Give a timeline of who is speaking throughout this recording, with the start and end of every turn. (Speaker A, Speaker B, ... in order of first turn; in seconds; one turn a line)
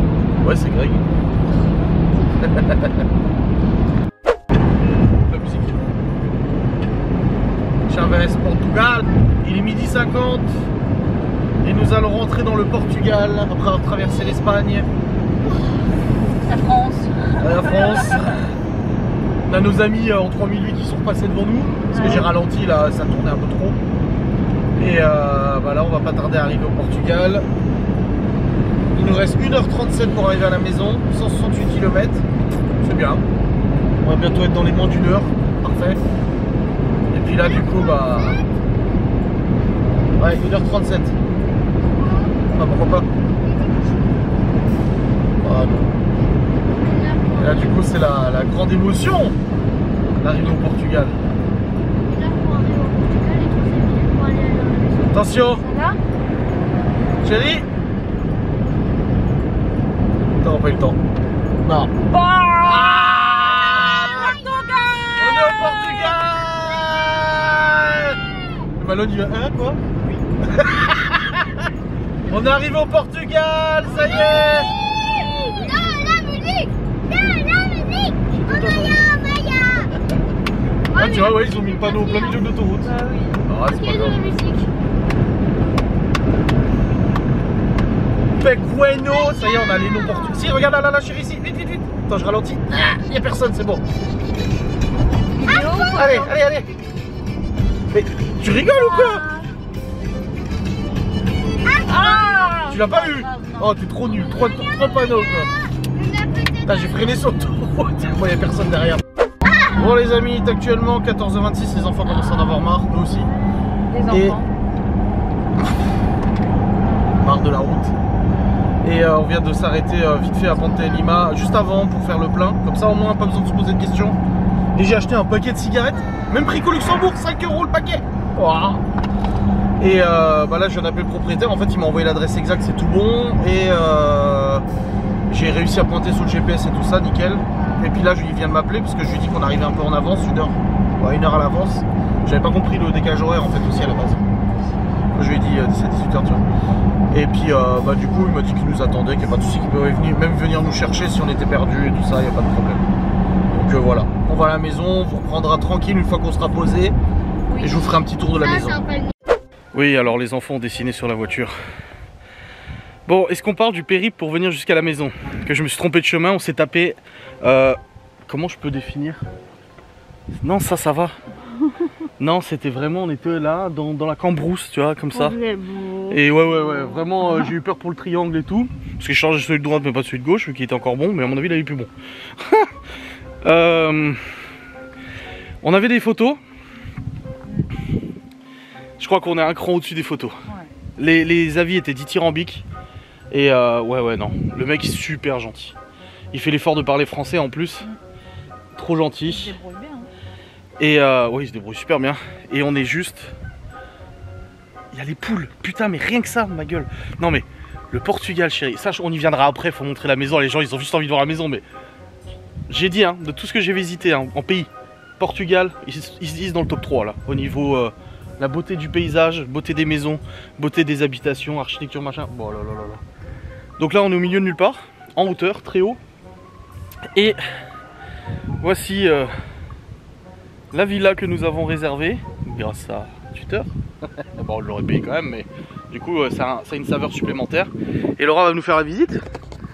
Speaker A: 0.4-1.1
Speaker A: 5.3-5.9
Speaker A: 7.9-10.6
Speaker A: 11.6-14.9
Speaker B: 16.4-18.2
Speaker A: 17.4-18.4
Speaker A: 19.5-23.8
Speaker B: 21.9-22.3
Speaker A: 24.8-27.4
Speaker A: 28.9-32.2
Speaker A: 32.8-33.2
Speaker A: 34.0-36.0
Speaker A: 37.1-38.4
Speaker C: 37.2-38.6
Speaker A: 40.2-41.1
Speaker C: 41.8-42.5
Speaker A: 42.5-43.0
Speaker C: 43.1-44.5
Speaker A: 45.4-46.1
Speaker C: 46.7-48.1
Speaker A: 47.4-49.4
Speaker A: 50.1-51.2
Speaker C: 52.0-55.5
Speaker A: 55.1-55.6
Speaker B: 55.6-56.0
Speaker A: 57.2-57.7
Speaker A: 60.4-61.0
Speaker A: 61.6-61.9
Speaker B: 62.1-65.2
Speaker A: 62.6-64.3
Speaker A: 65.2-68.2
Speaker A: 68.8-69.8
Speaker A: 70.4-71.7
Speaker A: 72.3-74.7
Speaker C: 73.8-79.9
Speaker B: 75.5-75.9
Speaker C: 80.9-82.5
Speaker A: 80.9-82.9
Speaker B: 82.8-83.4
Speaker A: 83.5-84.2
Speaker C: 83.7-84.7
Speaker A: 88.4-93.8
Speaker C: 89.1-90.5
Speaker B: 95.3-96.3
Speaker C: 95.4-95.9
Speaker A: 95.9-96.7
Speaker A: 97.9-99.2
Speaker B: 98.6-99.5
Speaker C: 101.7-102.2
Speaker B: 101.8-104.4
Speaker A: 102.7-105.5
Speaker C: 104.5-105.0
Speaker C: 105.9-107.3
Speaker A: 106.7-109.0
Speaker A: 109.7-113.3
Speaker B: 113.9-114.5
Speaker A: 114.1-114.4
Speaker A: 117.2-117.9
Speaker A: 118.8-124.2
Speaker A: 124.7-128.8
Speaker A: 129.8-134.7
Speaker A: 135.3-144.3
Speaker A: 145.1-146.4
Speaker A: 147.1-152.9
Speaker A: 153.5-157.0
Speaker B: 157.5-158.0
Speaker A: 157.6-158.8
Speaker C: 158.4-159.1
Speaker A: 159.7-161.6
Speaker A: 163.1-169.2
Speaker A: 170.4-171.2
Speaker A: 172.2-175.3
Speaker B: 175.1-176.2
Speaker A: 176.1-182.7
Speaker B: 177.2-177.5
Speaker A: 183.4-184.3
Speaker A: 185.6-186.4
Speaker A: 189.0-190.4
Speaker B: 190.4-190.7
Speaker A: 191.0-192.7
Speaker A: 193.3-195.8
Speaker A: 196.3-197.8
Speaker A: 198.7-199.5
Speaker B: 199.3-200.1
Speaker A: 200.8-203.3
Speaker A: 204.9-211.6
Speaker A: 212.7-223.0
Speaker A: 223.8-226.0
Speaker A: 227.1-227.4
Speaker A: 228.6-229.3
Speaker A: 230.7-233.7
Speaker A: 234.2-239.2